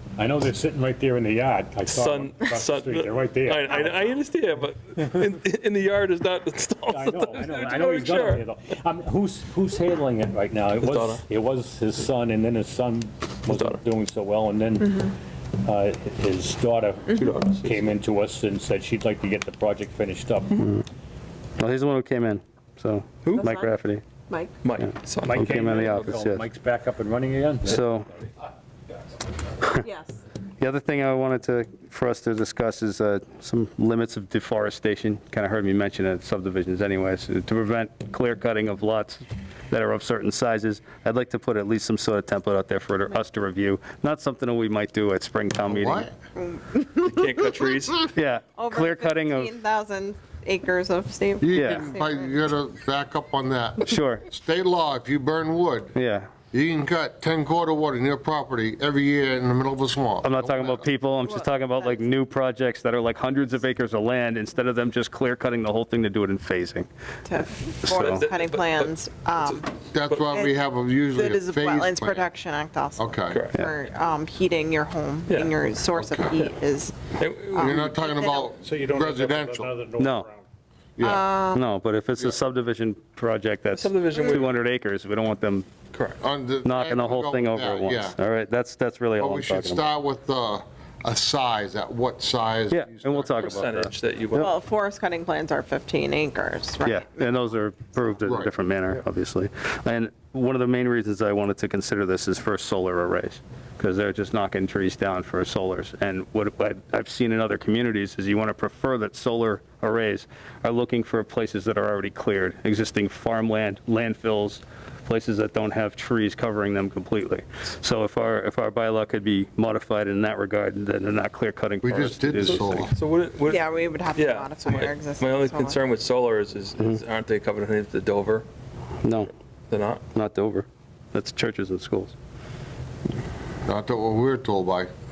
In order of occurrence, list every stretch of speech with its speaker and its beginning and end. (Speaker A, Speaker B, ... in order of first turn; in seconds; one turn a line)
Speaker A: 0.2-4.1
Speaker B: 1.9-8.5
Speaker A: 6.9-20.7
Speaker B: 10.8-11.3
Speaker B: 13.5-13.8
Speaker B: 17.2-17.9
Speaker C: 21.6-24.0
Speaker D: 23.3-23.7
Speaker D: 24.3-24.6
Speaker B: 24.6-26.2
Speaker A: 25.2-27.8
Speaker C: 25.3-26.4
Speaker C: 27.6-28.1
Speaker D: 29.8-30.2
Speaker C: 30.6-46.1
Speaker E: 45.7-46.1
Speaker D: 46.3-47.3
Speaker B: 47.0-48.1
Speaker C: 48.1-49.5
Speaker D: 48.6-52.3
Speaker E: 51.4-55.9
Speaker C: 51.5-51.9
Speaker C: 53.8-54.2
Speaker C: 55.9-56.3
Speaker E: 56.5-60.9
Speaker C: 60.2-66.9
Speaker D: 61.3-62.0
Speaker D: 67.3-69.6
Speaker C: 67.8-68.2
Speaker B: 67.9-70.2
Speaker E: 69.9-72.3
Speaker D: 70.3-70.5
Speaker D: 71.1-78.5
Speaker E: 73.0-73.4
Speaker B: 75.3-75.6
Speaker E: 75.9-76.5
Speaker B: 77.2-77.9
Speaker E: 77.6-79.7
Speaker A: 78.6-80.4
Speaker C: 80.0-80.3
Speaker E: 81.0-81.3
Speaker D: 81.0-81.6
Speaker C: 81.5-85.7
Speaker B: 83.7-84.5
Speaker B: 85.9-86.2
Speaker E: 86.2-88.2
Speaker C: 86.6-89.8
Speaker E: 89.2-93.5
Speaker C: 92.7-94.5
Speaker B: 93.3-94.6
Speaker D: 94.3-97.3
Speaker C: 96.8-122.9
Speaker E: 121.8-122.9
Speaker B: 122.3-128.4
Speaker D: 123.5-125.8
Speaker C: 129.0-129.3
Speaker B: 129.7-130.0
Speaker C: 130.1-132.1
Speaker E: 133.6-134.9